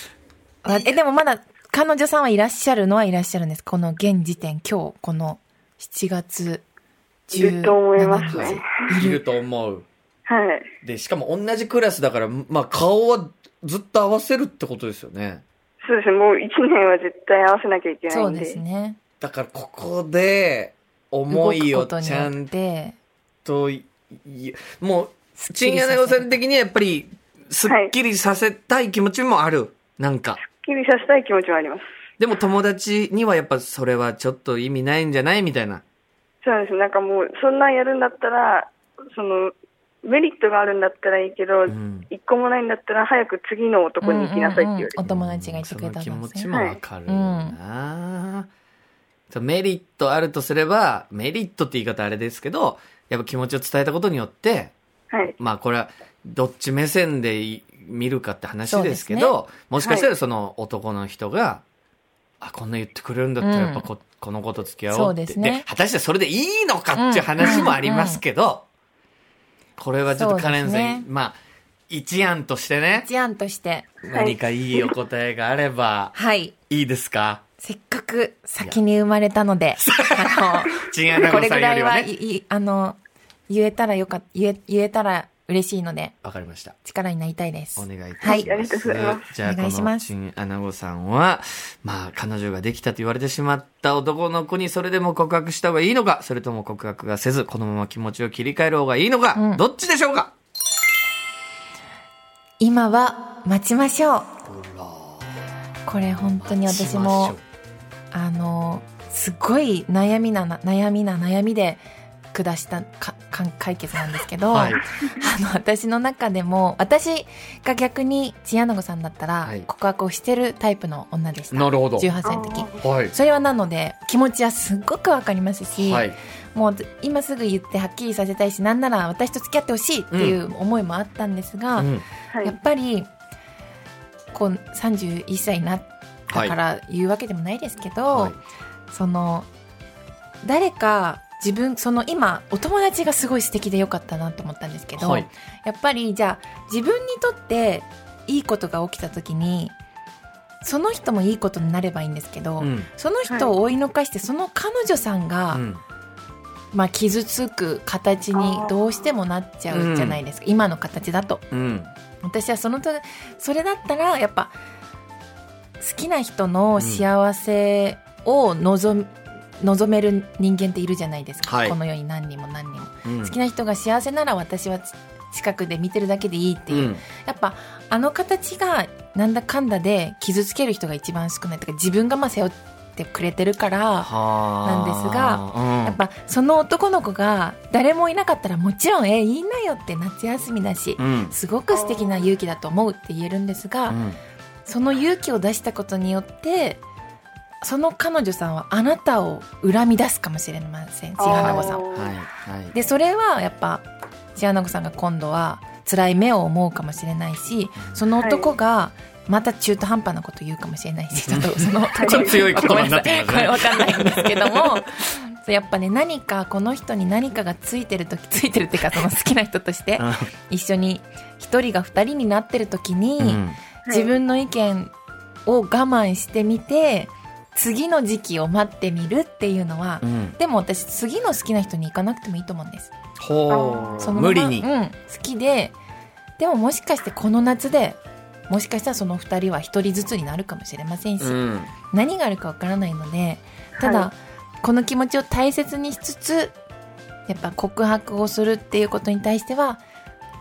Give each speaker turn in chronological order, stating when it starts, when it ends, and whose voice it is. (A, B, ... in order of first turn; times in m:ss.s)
0:00.6-0:06.6 A
0:07.3-0:09.2 A
0:07.3-0:08.6 B
0:08.2-0:09.8 C
0:10.3-0:10.7 B
0:10.8-0:15.4 C
0:15.8-0:18.6 B
0:18.1-0:19.0 A
0:19.2-0:22.5 C
0:21.3-0:23.0 A
0:23.4-0:30.4 C
0:25.4-0:26.4 A
0:27.7-0:27.9 B
0:30.4-0:31.8 B
0:32.2-0:35.8 C
0:36.4-0:45.0 B
0:41.7-0:42.1 C
0:44.0-0:46.5 A
0:45.0-0:48.5 C
0:46.5-0:46.8 B
0:47.0-0:47.6 A
0:49.3-0:54.7 C
0:55.4-1:01.6 C
0:58.7-0:59.4 A
0:59.8-1:00.1 B
1:02.4-1:08.6 C
1:03.4-1:03.9 A
1:04.9-1:05.6 A
1:06.9-1:08.2 A
1:09.8-1:13.1 C
1:10.1-1:11.1 A
1:12.9-1:13.9 A
1:14.0-1:16.1 C
1:14.1-1:14.9 B
1:16.1-1:16.5 A
1:16.7-1:17.4 C
1:17.6-1:26.1 A
1:19.8-1:22.1 C
1:26.2-1:26.7 C
1:26.8-1:28.5 A
1:27.8-1:40.3 C
1:28.2-1:29.3 B
1:29.4-1:30.1 A
1:39.3-1:39.6 A
1:42.6-1:44.3 A
1:44.4-1:45.4 C
1:45.8-1:47.4 A
1:45.9-1:47.4 C
1:48.1-2:11.9 A
1:54.5-1:54.8 C
2:01.5-2:02.1 C
2:02.2-2:02.8 B
2:02.8-2:03.1 C
2:05.7-2:06.2 C
2:10.1-2:10.4 C
2:11.8-2:12.0 C
2:12.4-2:13.1 A
2:14.3-2:18.4 A
2:16.3-2:16.6 C
2:18.1-2:18.4 C
2:18.9-2:19.5 A
2:20.4-2:29.7 A
2:25.0-2:25.3 C
2:30.6-2:35.6 A
2:32.6-2:32.9 C
2:35.5-2:35.8 C
2:36.7-2:41.4 A
2:38.3-2:38.8 B
2:39.7-2:40.2 C
2:41.5-2:41.9 C
2:42.2-2:44.5 A
2:45.8-3:04.1 A
2:46.8-2:47.1 C
2:51.4-2:51.8 C
2:53.0-2:53.4 C
2:56.7-2:57.0 C
3:04.0-3:06.0 C
3:04.6-3:14.0 A
3:11.0-3:11.3 C
3:11.7-3:12.2 B
3:13.9-3:14.2 C
3:14.6-3:16.8 A
3:17.6-3:21.8 A
3:21.2-3:22.1 B
3:21.3-3:22.8 C
3:22.7-3:44.9 A
3:28.2-3:28.5 B
3:31.3-3:34.8 C
3:32.0-3:32.4 B
3:40.0-3:40.3 C
3:43.2-3:43.6 C
3:43.8-3:44.1 B
3:45.4-3:52.9 A
3:50.0-3:50.4 C
3:53.2-3:54.7 C
3:53.5-3:54.1 B
3:54.0-3:55.7 A
3:56.4-4:06.6 A
4:01.2-4:01.7 C
4:03.8-4:04.1 B
4:07.3-4:09.8 A